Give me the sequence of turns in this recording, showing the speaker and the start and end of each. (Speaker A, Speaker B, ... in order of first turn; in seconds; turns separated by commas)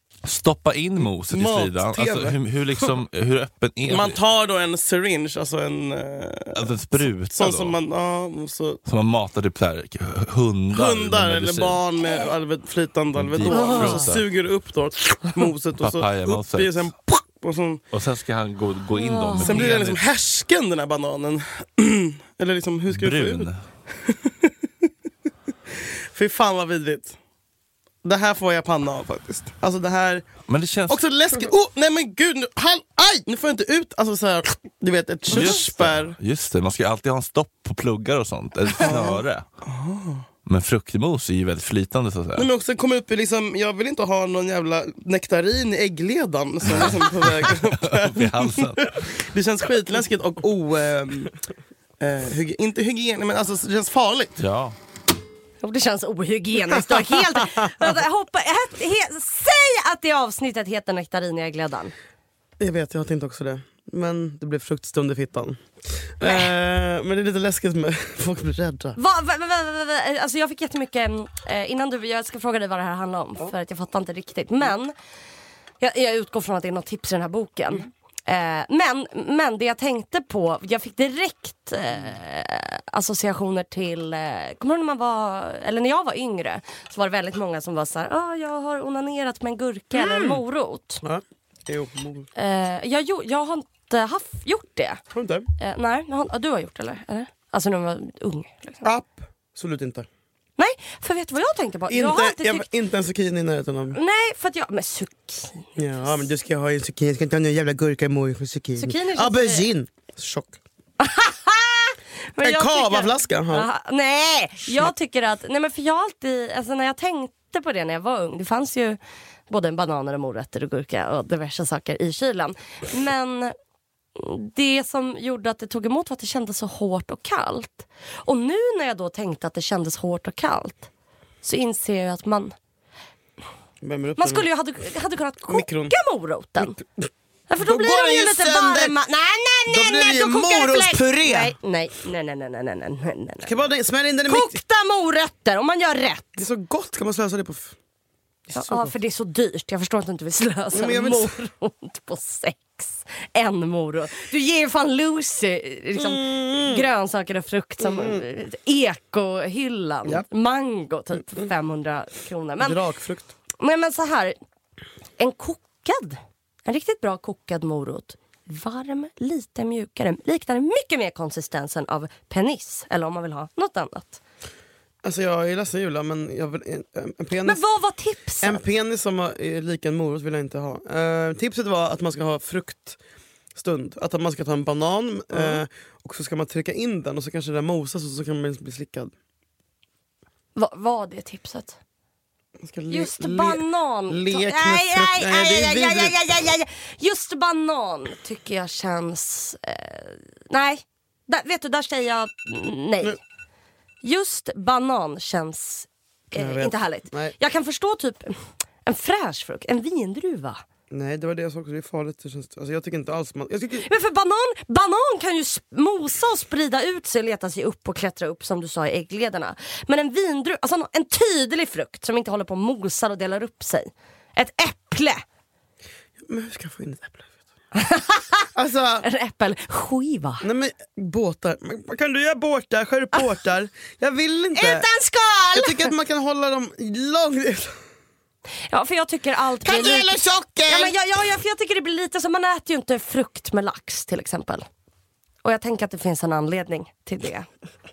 Speaker A: 0.2-4.2, Speaker B: 1.3-2.4, Speaker B: 3.9-8.8, Speaker A: 6.5-7.8, Speaker A: 8.8-11.8, Speaker B: 10.7-17.8, Speaker A: 13.1-14.2, Speaker C: 13.4-14.1, Speaker A: 15.8-16.9, Speaker A: 17.9-20.0, Speaker C: 18.9-19.7, Speaker B: 19.4-24.5, Speaker A: 22.9-23.6, Speaker B: 26.1-27.1, Speaker B: 28.0-30.4, Speaker A: 30.5-31.0, Speaker B: 30.9-36.1, Speaker A: 35.3-39.4, Speaker B: 38.8-40.2, Speaker A: 40.5-42.5, Speaker B: 42.4-51.3, Speaker A: 46.6-49.2, Speaker B: 52.0-54.4, Speaker A: 54.4-54.7, Speaker C: 55.6-61.9, Speaker B: 62.6-69.0, Speaker C: 69.0-74.9, Speaker C: 75.8-91.0, Speaker B: 89.9-90.4, Speaker B: 91.0-92.3, Speaker C: 92.3-95.0, Speaker B: 95.1-95.5, Speaker C: 95.6-98.9, Speaker B: 98.8-100.1, Speaker C: 100.6-102.7, Speaker B: 101.9-104.0, Speaker C: 103.9-106.2, Speaker B: 105.8-110.6, Speaker C: 108.8-109.7, Speaker C: 111.0-123.5, Speaker B: 112.4-113.7, Speaker C: 124.2-130.9, Speaker C: 131.4-132.5, Speaker B: 133.8-134.5, Speaker C: 134.2-136.8, Speaker B: 135.5-135.9, Speaker B: 136.6-137.1, Speaker C: 137.5-143.6, Speaker B: 137.6-138.9, Speaker B: 139.7-141.5, Speaker B: 143.4-144.6, Speaker C: 144.3-146.4, Speaker B: 146.4-147.7, Speaker C: 148.5-162.8, Speaker B: 148.5-148.9, Speaker B: 150.7-151.3, Speaker B: 155.9-156.8, Speaker B: 157.8-158.2, Speaker B: 162.6-163.3, Speaker C: 163.6-164.3, Speaker C: 165.2-174.2, Speaker B: 175.0-177.6, Speaker C: 177.4-178.6, Speaker B: 178.4-183.0, Speaker B: 183.5-189.1, Speaker C: 185.3-185.6, Speaker C: 190.6-191.8, Speaker B: 192.6-196.2, Speaker C: 192.9-203.2, Speaker C: 204.0-210.6, Speaker B: 206.3-207.3, Speaker B: 210.9-213.8, Speaker C: 213.8-225.2, Speaker B: 226.2-227.3, Speaker C: 227.7-228.5, Speaker B: 228.5-229.1, Speaker C: 229.0-230.4, Speaker B: 230.4-234.9, Speaker C: 234.5-235.9, Speaker B: 235.5-237.8, Speaker C: 238.7-244.6, Speaker B: 239.6-241.0, Speaker C: 245.4-247.5